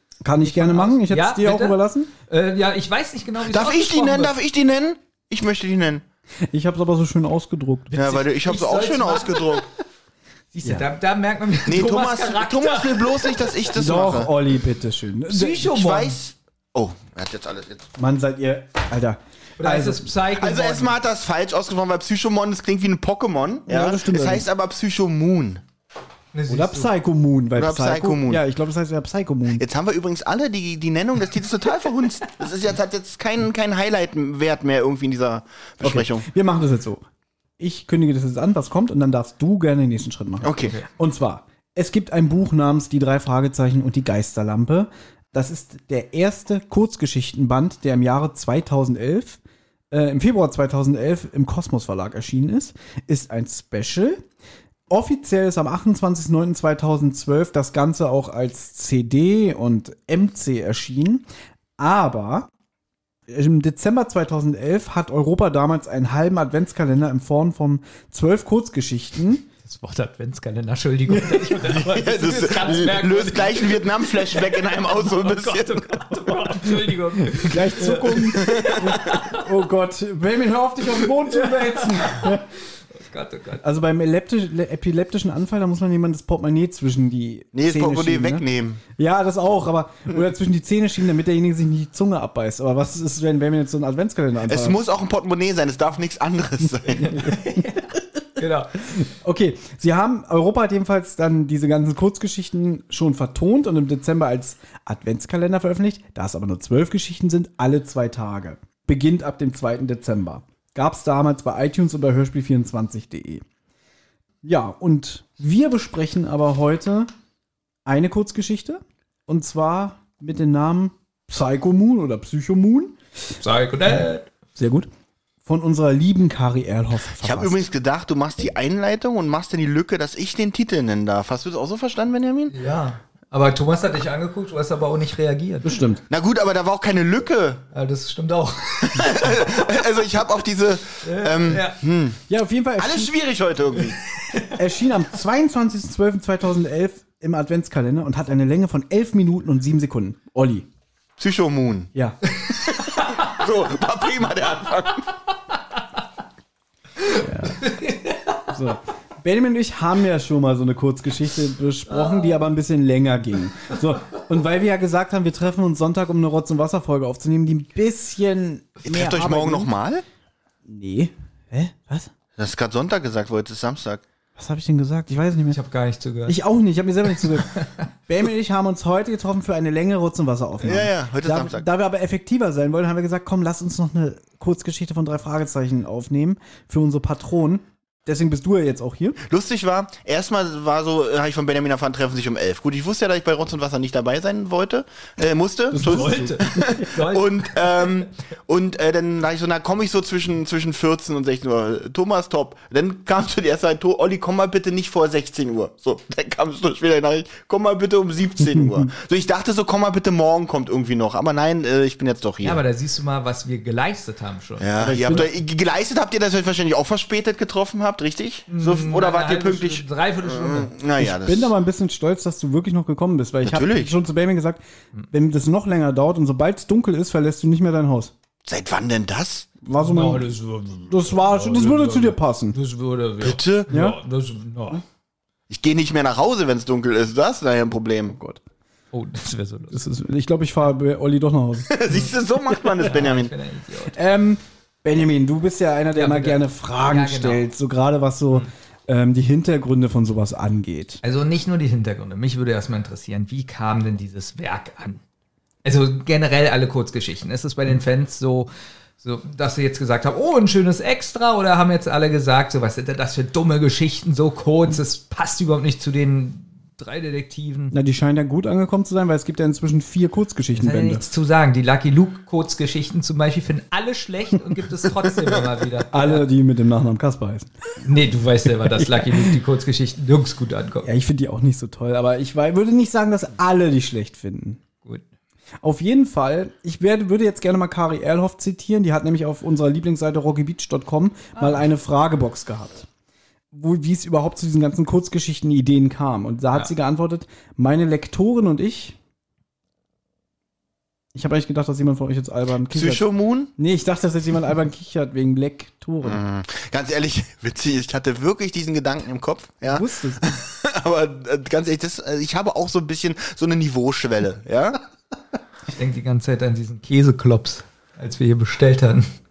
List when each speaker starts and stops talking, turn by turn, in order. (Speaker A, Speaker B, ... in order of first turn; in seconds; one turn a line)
Speaker A: 0.2-2.1
Speaker B: 0.4-1.8
Speaker B: 2.3-4.3
Speaker C: 3.4-6.0
Speaker A: 6.5-7.9
Speaker B: 7.9-9.6
Speaker C: 7.9-9.6
Speaker B: 10.5-13.7
Speaker C: 11.6-14.3
Speaker A: 13.8-15.6
Speaker B: 15.3-16.2
Speaker C: 15.6-17.9
Speaker A: 18.0-20.1
Speaker B: 19.6-21.0
Speaker C: 20.3-25.6
Speaker A: 23.7-24.5
Speaker B: 26.3-26.9
Speaker A: 26.5-29.6
Speaker C: 27.6-28.4
Speaker C: 29.5-36.3
Speaker A: 35.8-37.0
Speaker A: 37.6-49.4
Speaker C: 40.4-40.8
Speaker A: 49.9-54.2
Speaker A: 54.9-61.2
Speaker A: 61.8-62.5
Speaker A: 63.3-69.4
Speaker B: 69.6-79.2
Speaker C: 71.6-76.0
Speaker A: 77.3-82.4
Speaker C: 78.3-79.2
Speaker B: 81.3-83.6
Speaker A: 83.6-88.4
Speaker C: 87.5-88.8
Speaker A: 89.0-94.8
Speaker C: 94.5-97.2
Speaker B: 97.1-97.8
Speaker A: 97.1-97.7
Speaker B: 98.4-98.9
Speaker A: 98.9-113.4
Speaker A: 114.4-117.1
Speaker A: 117.8-123.0
Speaker B: 123.4-124.2
Speaker A: 124.5-124.9
Speaker A: 125.4-127.6
Speaker C: 127.2-132.5
Speaker B: 132.5-135.8
Speaker A: 135.6-136.0
Speaker C: 136.1-137.6
Speaker B: 137.7-139.8
Speaker C: 138.9-142.2
Speaker B: 141.0-141.8
Speaker A: 142.3-143.1
Speaker C: 142.8-144.0
Speaker A: 144.6-150.7
Speaker C: 151.2-151.9
Speaker A: 151.9-152.2
Speaker C: 152.5-155.1
Speaker B: 152.8-153.2
Speaker B: 157.0-158.4
Speaker A: 157.2-157.6
Speaker A: 158.5-169.7
Speaker B: 161.9-162.4
Speaker C: 168.8-170.0
Speaker A: 170.7-172.1
Speaker C: 172.4-174.0
Speaker A: 174.4-175.6
Speaker B: 175.5-176.4
Speaker A: 176.2-177.5
Speaker B: 177.3-177.7
Speaker A: 178.1-189.2
Speaker C: 180.6-181.7
Speaker C: 189.2-212.6
Speaker A: 195.7-196.3
Speaker B: 195.8-198.1
Speaker A: 208.5-208.9
Speaker B: 212.4-215.2
Speaker C: 214.6-221.5
Speaker A: 214.8-215.3
Speaker B: 218.5-220.7
Speaker A: 221.0-228.1
Speaker C: 223.4-223.9
Speaker C: 228.4-229.5
Speaker A: 229.6-230.2
Speaker B: 229.8-234.8
Speaker A: 230.9-232.6
Speaker C: 233.2-233.7
Speaker A: 233.7-233.9
Speaker C: 235.5-238.2
Speaker A: 238.1-238.4
Speaker B: 238.9-239.8
Speaker A: 239.7-241.7
Speaker C: 241.7-243.3
Speaker B: 242.8-243.9
Speaker A: 243.9-251.0
Speaker B: 245.9-247.4
Speaker B: 251.0-255.0
Speaker B: 255.6-267.7
Speaker A: 267.7-271.0
Speaker B: 270.5-276.2
Speaker A: 275.9-277.5
Speaker B: 277.8-280.9
Speaker A: 278.8-279.4
Speaker A: 280.8-284.6
Speaker A: 285.6-292.9
Speaker A: 293.5-298.9
Speaker A: 301.1-306.2
Speaker C: 302.7-303.5
Speaker C: 306.0-314.8
Speaker A: 309.7-310.4
Speaker B: 315.7-319.1